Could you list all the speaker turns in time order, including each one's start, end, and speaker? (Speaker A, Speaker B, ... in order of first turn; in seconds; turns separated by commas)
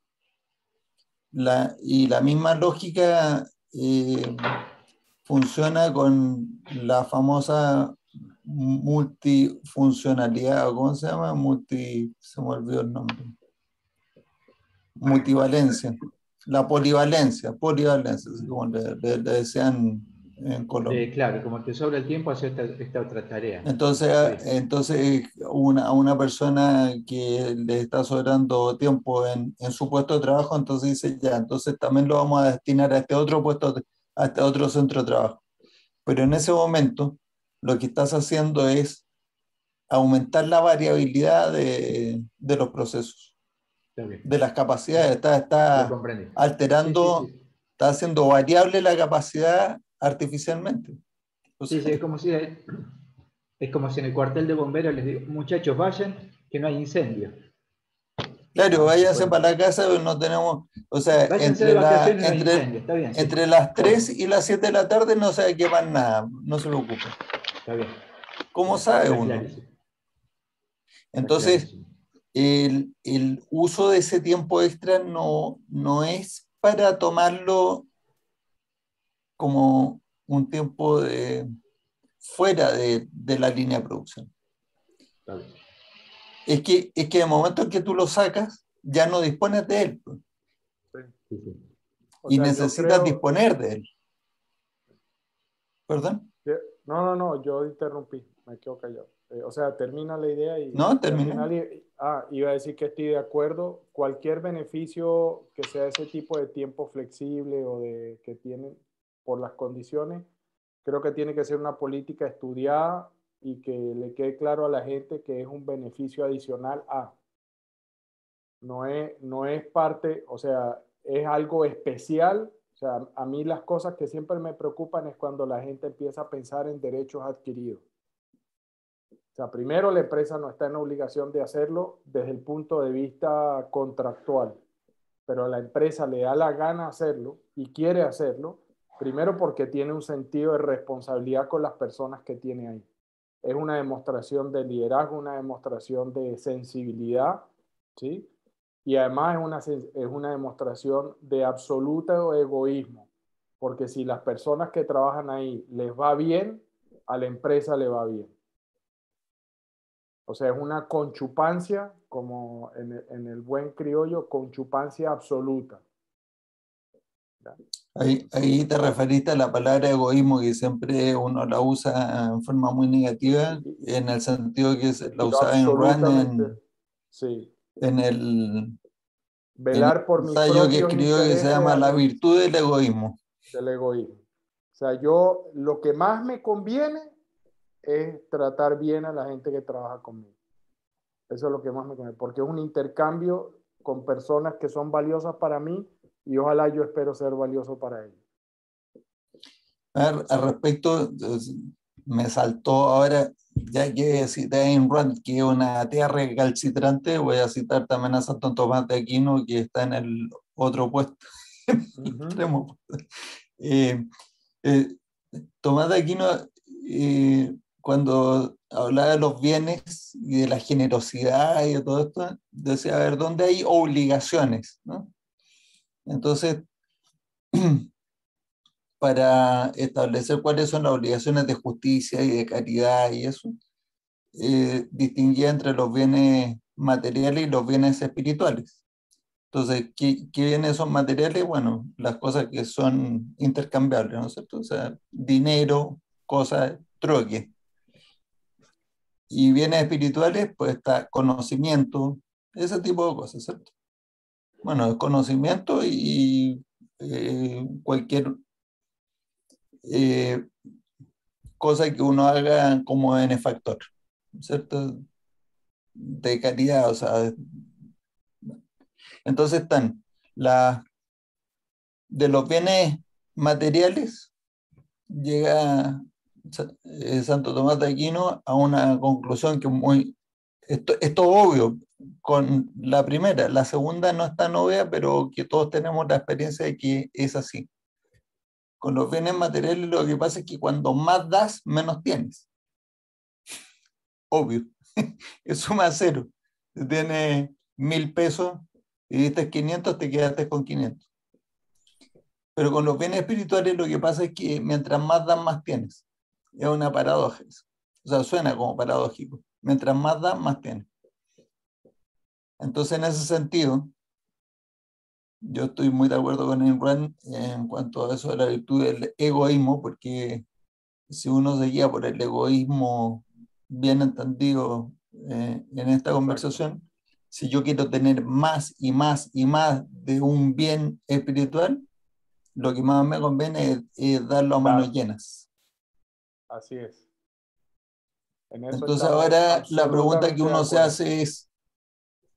Speaker A: 1.3-4.6, Speaker A: 5.3-13.3, Speaker A: 15.0-21.1, Speaker B: 20.9-24.4, Speaker A: 23.6-35.4, Speaker A: 36.1-39.0, Speaker A: 39.9-43.3, Speaker B: 44.0-44.3, Speaker A: 44.2-47.3, Speaker B: 45.7-47.4, Speaker A: 47.8-51.0, Speaker A: 51.6-52.0, Speaker B: 51.7-52.9, Speaker B: 53.6-57.4, Speaker A: 58.5-67.2, Speaker B: 58.7-59.4, Speaker B: 61.3-64.1, Speaker B: 67.7-68.0, Speaker A: 68.5-69.5, Speaker B: 68.7-69.7, Speaker A: 71.1-71.7, Speaker B: 71.2-71.9, Speaker A: 72.3-77.9, Speaker A: 79.4-81.5, Speaker A: 82.2-84.3, Speaker B: 85.3-85.6, Speaker A: 86.5-90.2, Speaker B: 91.3-91.7, Speaker C: 92.2-93.2, Speaker A: 92.3-93.9, Speaker A: 95.9-96.3, Speaker C: 96.5-110.3, Speaker A: 100.7-101.5, Speaker C: 110.8-117.1, Speaker C: 118.6-127.8, Speaker C: 129.3-134.6, Speaker C: 135.3-142.9, Speaker C: 143.4-148.3, Speaker C: 148.8-153.1, Speaker C: 153.6-158.3, Speaker C: 160.3-165.8, Speaker A: 167.9-176.6, Speaker C: 175.1-176.6, Speaker C: 177.1-177.5, Speaker A: 177.8-178.8, Speaker C: 179.6-182.1, Speaker A: 179.7-183.2, Speaker C: 183.5-184.2, Speaker C: 184.8-187.1, Speaker C: 187.8-190.3, Speaker C: 191.3-198.2, Speaker A: 199.9-214.1, Speaker C: 212.0-212.4, Speaker A: 214.6-225.1, Speaker A: 226.1-226.7, Speaker A: 227.5-227.9, Speaker A: 229.0-233.6, Speaker A: 234.4-238.8, Speaker A: 239.5-247.5, Speaker A: 249.3-253.7, Speaker A: 254.6-258.4, Speaker A: 259.9-260.5, Speaker A: 261.6-263.9, Speaker A: 264.4-265.0, Speaker A: 266.0-267.7, Speaker A: 269.3-270.8, Speaker A: 272.1-274.3, Speaker A: 275.1-280.1, Speaker A: 280.7-287.7, Speaker A: 288.8-292.5, Speaker A: 294.3-301.1, Speaker A: 302.6-306.0, Speaker A: 306.6-310.9, Speaker A: 312.6-313.9, Speaker A: 315.4-320.4, Speaker A: 321.1-331.9, Speaker C: 326.2-326.6, Speaker A: 332.6-335.5, Speaker C: 334.6-334.9, Speaker C: 336.5-337.1, Speaker C: 338.5-341.0, Speaker A: 338.7-341.5